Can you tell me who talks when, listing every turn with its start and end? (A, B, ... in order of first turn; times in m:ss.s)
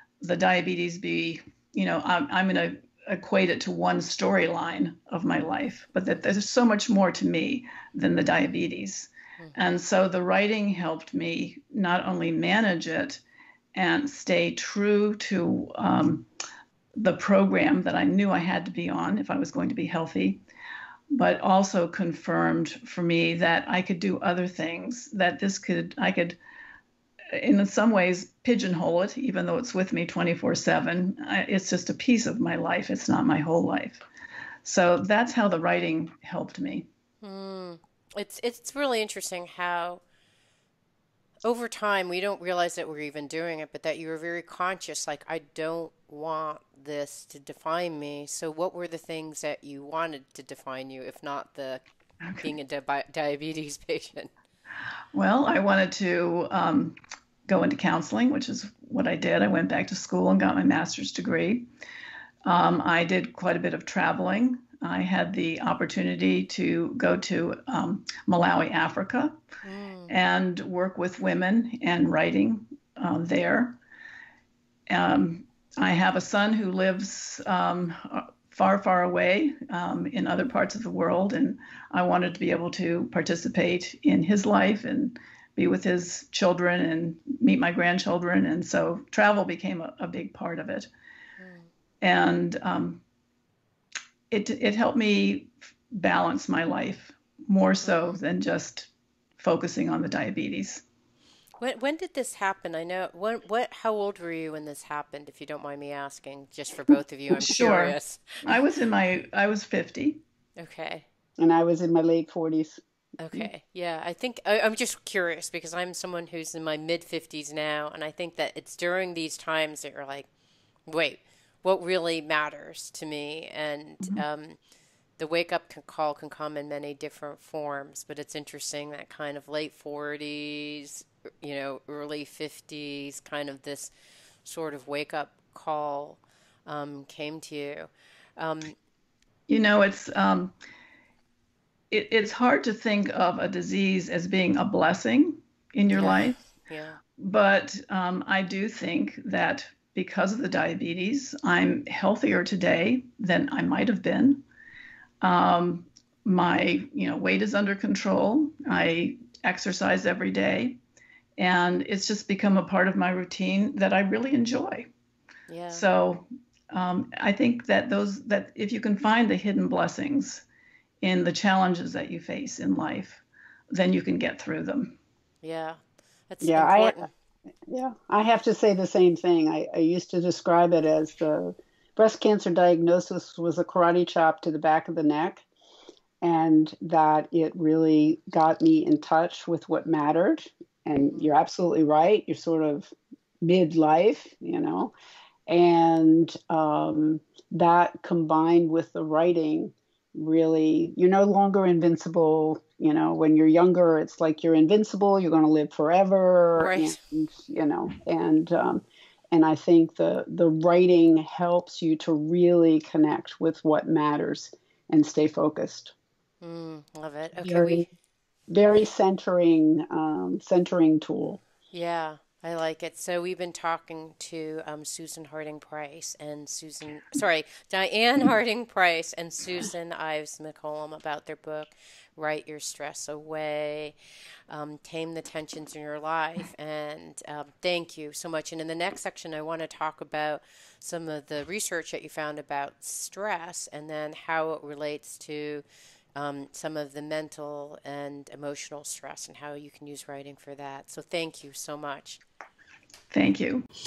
0:00.2-0:13.2 A
0:13.7-0:16.3 A
0:17.0-0:20.4 A
0:21.1-0:26.4 A
0:27.3-0:34.0 A
0:34.6-0:36.9 A
0:37.2-0:40.0 B
0:41.4-0:51.8 B
0:52.4-0:54.3 B
0:55.1-1:01.6 A
1:02.4-1:09.3 A
1:09.6-1:10.1 B
1:10.1-1:13.8 A
1:14.9-1:30.9 A
1:31.4-1:31.7 B
1:32.0-1:33.0 A
1:34.3-1:40.8 A
1:37.8-1:38.2 B
1:41.6-1:48.2 B
1:47.3-1:50.2 A
1:50.6-1:51.0 B
1:51.4-1:52.8 C
1:53.2-2:00.3 B
2:00.9-2:04.6 B
2:05.2-2:13.9 B
2:14.4-2:18.8 B
2:19.5-2:20.5 A
2:21.9-2:26.4 A
2:25.9-2:27.0 B
2:27.2-2:34.4 A
2:35.2-2:40.8 A
2:41.4-2:44.9 A
2:45.5-2:45.8 B
2:45.7-2:50.4 A
2:51.0-2:55.0 A
2:55.4-2:57.1 B
2:56.4-2:57.1 C
2:57.7-3:05.4 C
3:06.2-3:14.9 C
3:15.5-3:35.9 C
3:26.6-3:27.0 B
3:36.4-3:37.9 B
3:37.4-3:37.8 C
3:38.5-3:41.4 C
3:41.7-3:53.9 B
3:54.5-4:05.6 B
4:06.2-4:12.2 B
4:13.1-4:13.6 A